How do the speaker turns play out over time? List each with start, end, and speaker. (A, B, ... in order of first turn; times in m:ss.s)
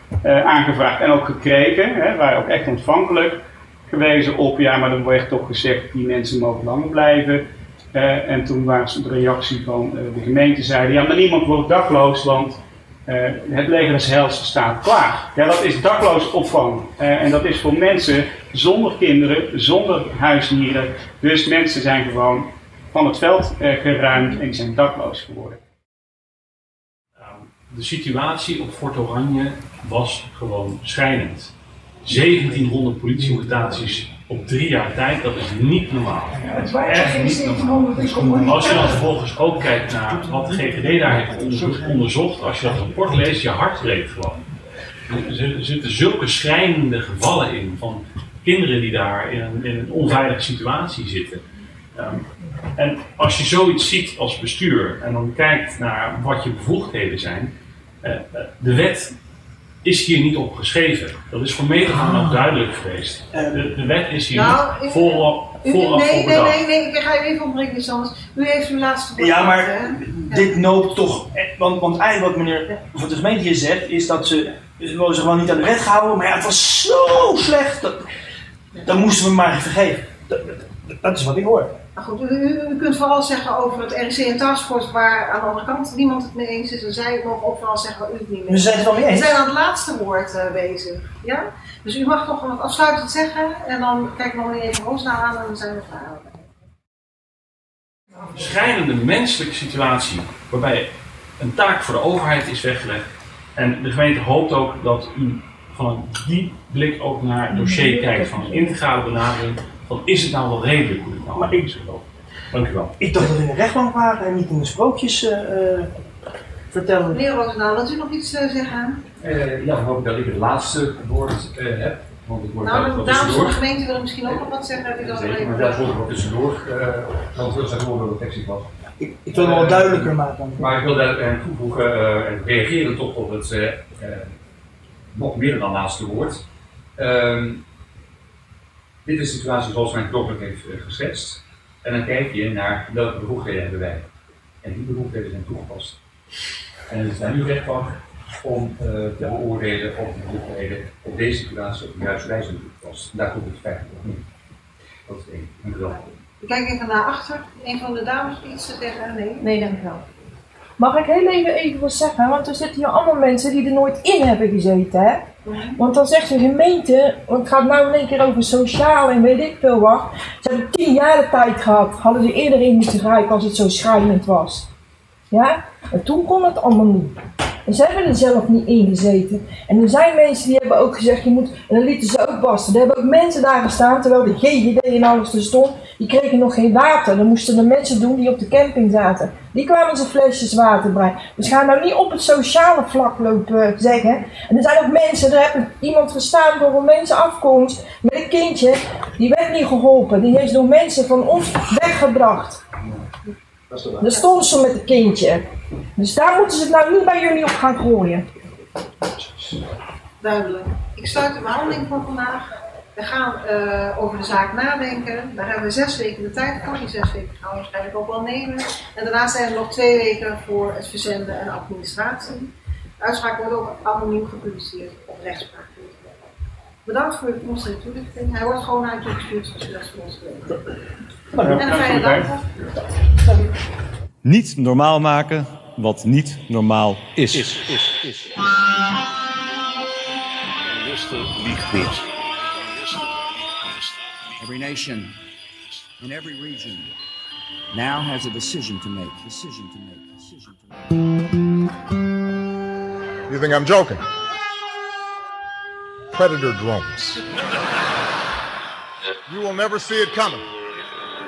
0:00.2-0:25.6 A
0:27.2-0:31.5 B
0:32.0-0:44.5 B
0:33.4-0:33.7 C
0:36.5-0:39.0 D
0:40.0-0:42.1 C
0:42.9-0:43.3 C
0:45.1-0:51.4 B
0:52.0-0:59.1 B
0:59.8-1:06.6 B
1:02.1-1:02.4 C
1:03.3-1:03.7 C
1:04.3-1:10.5 E
1:09.2-1:18.0 C
1:18.8-1:21.8 C
1:22.0-1:36.5 E
1:28.5-1:29.4 C
1:38.3-1:43.0 B
1:43.6-1:52.9 B
1:47.5-1:48.8 D
1:51.4-1:51.7 C
1:53.0-1:55.9 C
1:56.7-1:57.2 C
1:57.1-1:59.0 E
1:59.2-2:03.6 F
2:02.6-2:05.9 E
2:05.0-2:08.7 F
2:09.0-2:10.7 C
2:09.3-2:14.3 F
2:15.1-2:16.4 F
2:17.0-2:17.6 F
2:19.0-2:24.1 F
2:24.6-2:26.0 F
2:26.9-2:34.2 F
2:35.1-2:36.1 F
2:36.4-2:39.6 E
2:39.4-2:40.0 D
2:40.8-2:54.7 D
2:45.5-2:45.8 E
2:55.3-3:22.6 D
3:24.0-3:28.3 D
3:30.2-3:46.0 E
3:46.8-3:50.6 E
3:51.4-3:51.7 C
3:51.4-3:52.3 A
3:51.5-3:52.5 E
3:54.2-3:58.3 G
4:00.7-4:03.1 G
4:03.6-4:03.9 G
4:04.4-4:05.2 H
4:06.0-4:06.9 H
4:07.7-4:11.0 H
4:13.3-4:14.0 I
4:16.1-4:17.2 I
4:19.3-4:20.4 I